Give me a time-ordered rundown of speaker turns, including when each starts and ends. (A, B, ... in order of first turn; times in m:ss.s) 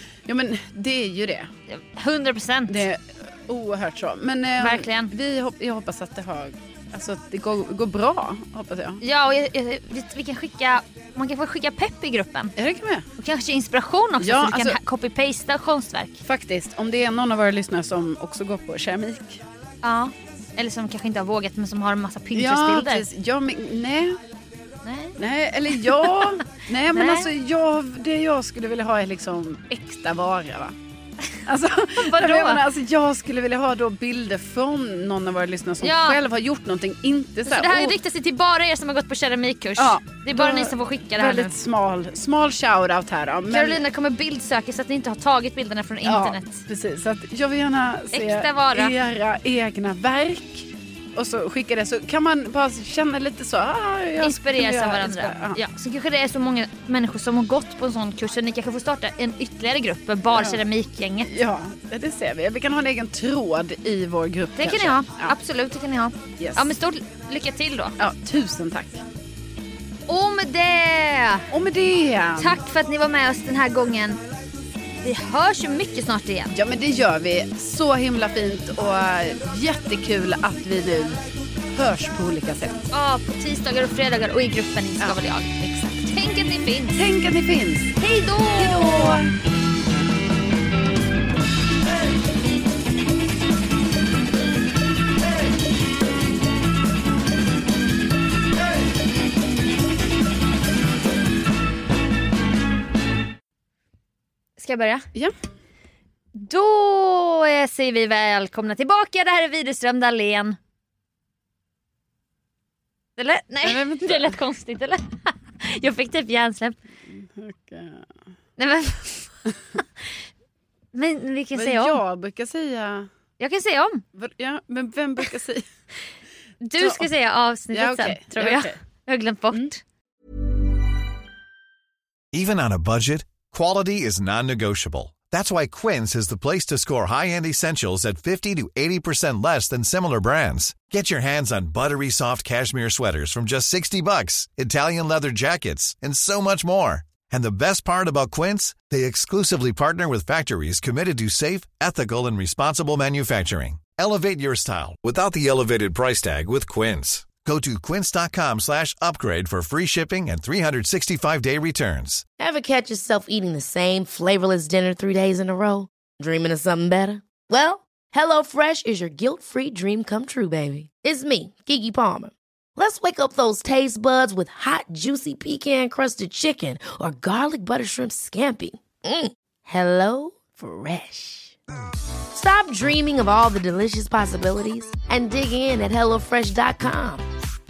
0:00.3-0:01.5 A
0:01.7-0:02.8 B
0:02.7-0:09.0 A
0:04.6-0:05.1 B
0:09.0-0:12.5 B
0:12.6-0:13.0 A
0:13.2-0:16.2 B
0:14.2-0:14.8 A
0:16.2-0:19.4 A
0:19.8-0:23.0 B
0:22.3-0:24.2 A
0:24.8-0:25.1 B
0:25.2-0:30.7 A
0:25.8-0:26.1 B
0:26.9-0:27.3 B
0:31.4-0:37.9 A
0:32.0-0:32.6 B
0:35.8-0:36.2 B
0:37.4-0:41.5 B
0:39.8-0:43.8 A
0:43.5-0:46.6 B
0:46.0-0:55.6 A
0:48.1-0:48.9 B
0:54.2-1:01.4 B
1:00.3-1:00.6 A
1:01.2-1:05.3 A
1:04.6-1:07.9 B
1:06.4-1:06.7 A
1:08.0-1:09.0 A
1:10.1-1:11.4 B
1:11.5-1:12.6 A
1:12.4-1:14.2 B
1:15.0-1:16.6 B
1:16.5-1:21.2 A
1:21.7-1:22.8 A
1:22.9-1:27.0 B
1:25.0-1:26.0 A
1:26.9-1:28.0 A
1:28.0-1:29.2 B
1:28.6-1:29.3 A
1:44.6-1:45.0 B
1:46.3-1:50.6 B
1:53.2-1:56.8 B
1:53.6-1:54.3 A
1:57.1-1:58.0 A
1:58.6-1:59.3 B
2:00.9-2:02.0 B
2:01.5-2:03.1 A
2:03.4-2:04.0 B
2:04.1-2:05.6 A
2:06.6-2:09.8 B
2:06.8-2:07.1 A
2:07.7-2:08.7 A
2:12.3-2:42.2 C
2:42.4-3:01.6 D
3:02.3-3:07.2 D